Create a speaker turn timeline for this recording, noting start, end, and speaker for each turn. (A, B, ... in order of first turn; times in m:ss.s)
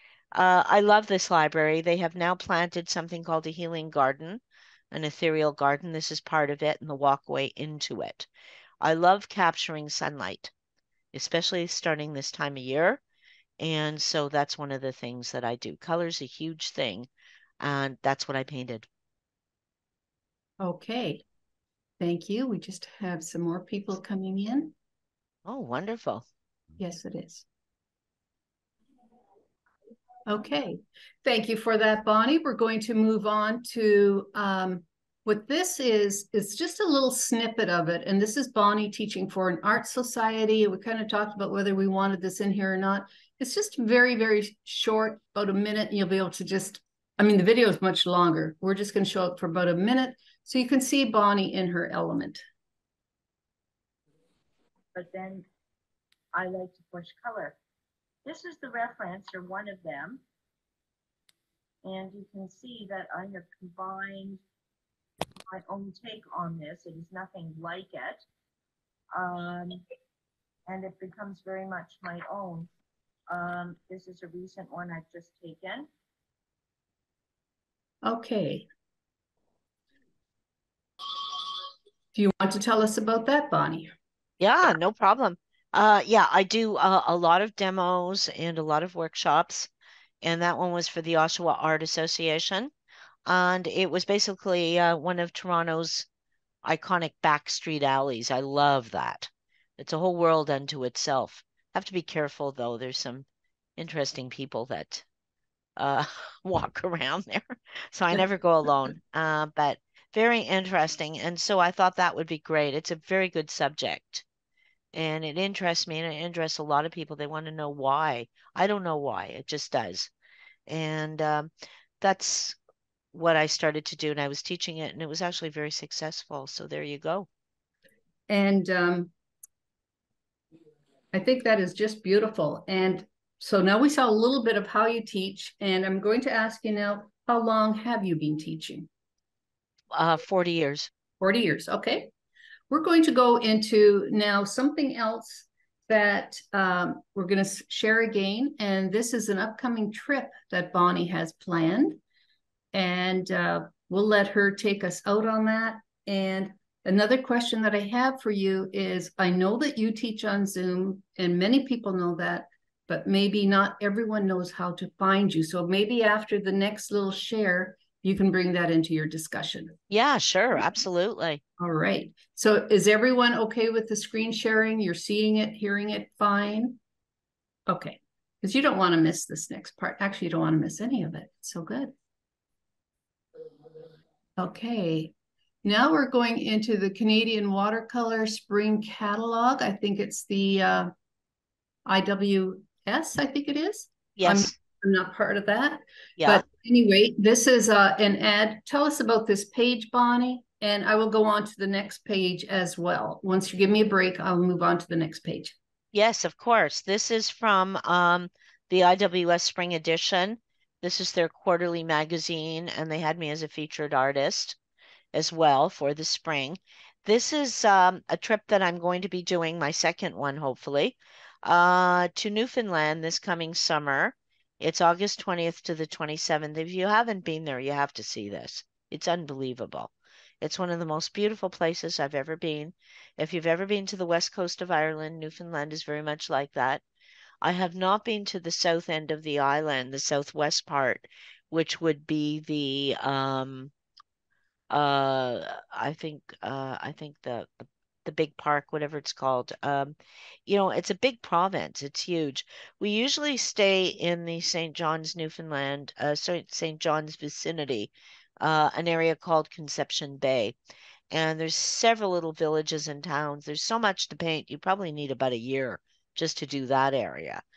0:00.3-0:08.3 A
0:08.8-0:10.5 A
0:11.1-0:13.0 A
0:13.6-0:17.1 A
0:17.6-0:18.9 A
0:20.6-0:21.2 B
0:22.0-0:24.7 B
0:25.5-0:26.2 A
0:26.8-0:27.4 B
0:30.3-0:52.4 B
0:55.0-0:55.5 C
0:56.3-0:57.6 C
0:58.2-1:00.2 C
1:01.8-1:04.4 C
1:05.5-1:08.2 C
1:09.1-1:09.8 C
1:10.7-1:12.7 C
1:13.3-1:15.9 C
1:18.0-1:18.7 B
1:22.1-1:23.9 B
1:24.4-1:29.7 A
1:30.2-1:32.7 A
1:33.2-1:36.1 A
1:36.6-1:45.0 A
1:45.8-1:54.2 A
1:54.9-2:00.1 A
2:00.7-2:01.5 A
2:02.0-2:02.6 A
2:03.1-2:07.3 A
2:08.3-2:09.1 B
2:11.1-2:18.9 B
2:19.9-2:20.9 A
2:21.2-2:22.1 B
2:22.7-2:32.0 B
2:32.7-2:49.8 B
2:49.9-2:51.4 A
2:51.6-2:56.8 B
2:57.7-3:01.9 B
3:04.4-3:05.1 B
3:05.6-3:10.9 B
3:11.9-3:25.6 B
3:14.2-3:14.5 A
3:16.2-3:16.4 A
3:25.9-3:34.6 A
3:35.1-3:56.8 A
3:57.4-4:03.7 A
4:04.7-4:10.0 A
4:10.5-4:20.6 A
4:21.1-4:27.4 A